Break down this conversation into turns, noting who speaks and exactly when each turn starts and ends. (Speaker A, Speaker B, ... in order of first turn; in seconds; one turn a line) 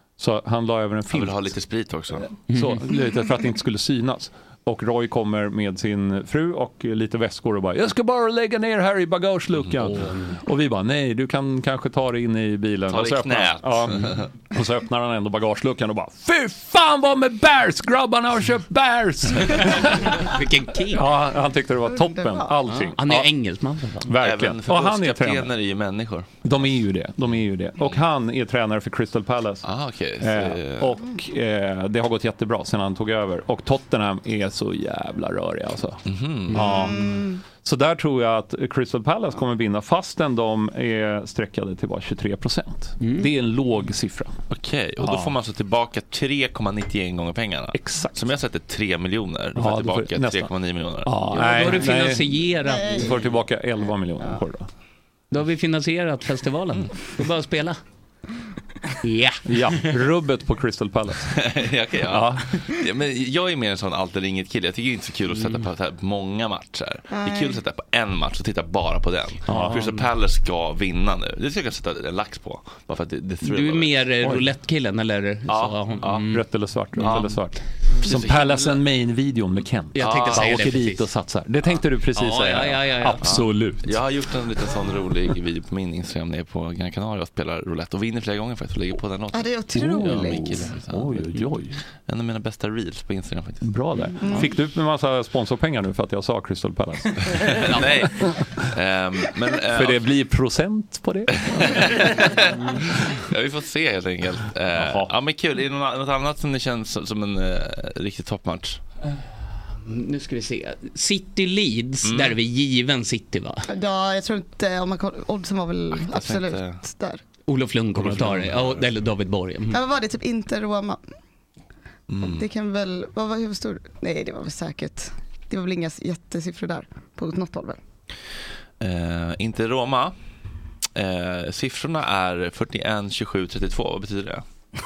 Speaker A: 0.2-1.5
Speaker B: 1.1-2.3
Speaker A: 2.5-20.3
Speaker C: 2.5-2.8
Speaker B: 12.9-14.3
Speaker C: 20.3-21.0
Speaker A: 20.9-23.3
Speaker D: 21.9-22.5
Speaker C: 22.8-24.1
Speaker A: 24.0-25.5
Speaker B: 24.2-26.3
Speaker A: 26.4-29.6
Speaker B: 29.6-30.9
Speaker A: 30.2-44.3
Speaker B: 36.0-36.6
Speaker D: 36.5-37.4
Speaker C: 43.0-43.3
Speaker B: 44.5-51.8
Speaker A: 45.0-45.3
Speaker A: 47.7-48.3
Speaker A: 49.5-50.5
Speaker A: 51.0-54.7
Speaker C: 51.3-53.0
Speaker D: 52.6-53.2
Speaker C: 55.3-57.8
Speaker C: 59.0-59.9
Speaker A: 59.4-61.3
Speaker B: 61.3-74.0
Speaker A: 62.1-62.5
Speaker D: 67.1-67.6
Speaker A: 69.5-69.9
Speaker C: 73.4-76.4
Speaker B: 75.5-76.3
Speaker A: 76.2-84.0
Speaker B: 77.0-77.4
Speaker B: 78.0-78.8
Speaker C: 79.9-81.0
Speaker B: 80.0-80.7
Speaker C: 82.1-83.3
Speaker B: 83.2-91.4
Speaker D: 89.3-90.7
Speaker A: 89.7-91.8
Speaker B: 92.1-93.7
Speaker A: 93.6-98.7
Speaker D: 94.2-94.5
Speaker B: 97.3-100.0
Speaker A: 99.7-102.8
Speaker B: 101.4-108.8
Speaker A: 104.8-105.1
Speaker C: 109.8-113.7
Speaker B: 112.0-112.3
Speaker D: 113.7-117.2
Speaker B: 115.9-116.8
Speaker C: 117.5-119.8
Speaker B: 118.0-118.8
Speaker D: 119.7-121.0
Speaker B: 122.1-122.4
Speaker D: 122.2-127.8
Speaker B: 128.8-130.1
Speaker B: 130.9-134.4